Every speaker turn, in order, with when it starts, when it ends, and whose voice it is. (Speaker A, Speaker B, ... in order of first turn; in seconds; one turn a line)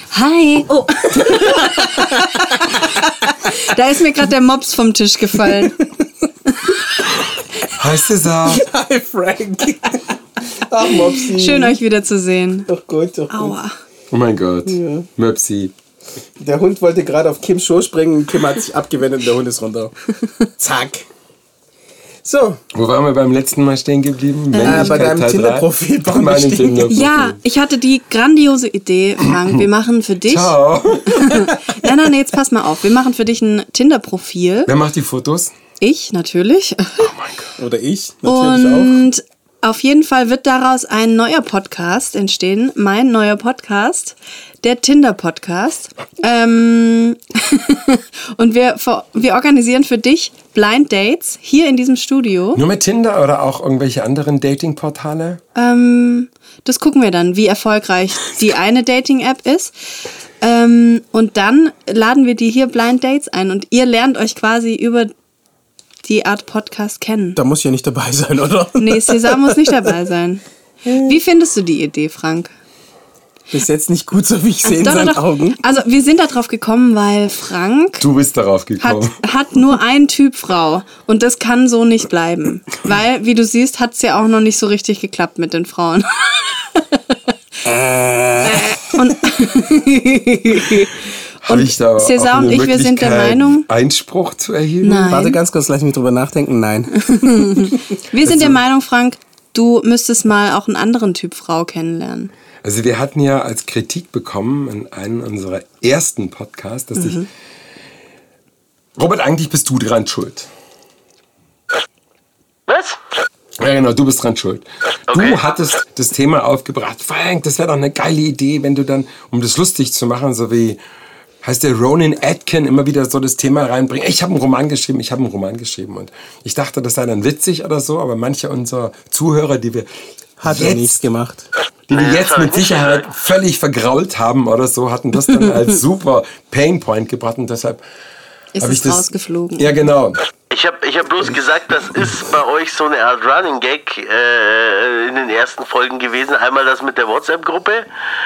Speaker A: 0.1-5.8
Speaker B: 1.8-2.1
Speaker C: 7.7-8.6
Speaker B: 8.4-11.8
Speaker A: 11.0-12.7
Speaker B: 12.7-13.6
Speaker A: 13.3-13.7
Speaker C: 14.1-15.7
Speaker B: 14.7-15.1
Speaker B: 16.4-21.1
Speaker B: 22.2-22.6
Speaker C: 22.7-27.4
Speaker A: 24.5-25.0
Speaker B: 24.6-26.9
Speaker A: 26.9-30.5
Speaker C: 30.2-31.3
Speaker A: 31.1-34.7
Speaker C: 34.7-35.5
Speaker A: 35.8-37.1
Speaker C: 37.0-37.5
Speaker B: 37.6-39.0
Speaker A: 38.2-52.6
Speaker C: 52.5-55.4
Speaker A: 55.5-59.7
Speaker A: 60.4-65.1
Speaker A: 66.0-67.4
Speaker B: 67.4-69.9
Speaker A: 68.8-72.5
Speaker B: 70.9-71.1
Speaker B: 73.5-75.6
Speaker A: 74.6-78.0
Speaker C: 78.0-79.2
Speaker A: 78.8-87.0
Speaker B: 87.6-88.8
Speaker A: 88.4-93.7
Speaker C: 91.4-95.2
Speaker A: 94.8-95.4
Speaker B: 95.1-97.8
Speaker A: 97.0-102.3
Speaker C: 98.2-98.6
Speaker C: 102.6-107.3
Speaker A: 107.0-107.2
Speaker C: 109.0-110.5
Speaker D: 112.7-113.0
Speaker C: 113.6-120.8
Speaker D: 115.1-115.4
Speaker C: 121.4-129.9
Speaker B: 130.4-131.5
Speaker C: 130.4-131.0
Speaker C: 131.9-137.8
Speaker D: 131.9-133.1
Speaker A: 138.6-139.9
Speaker C: 138.6-140.2
Speaker D: 140.5-147.9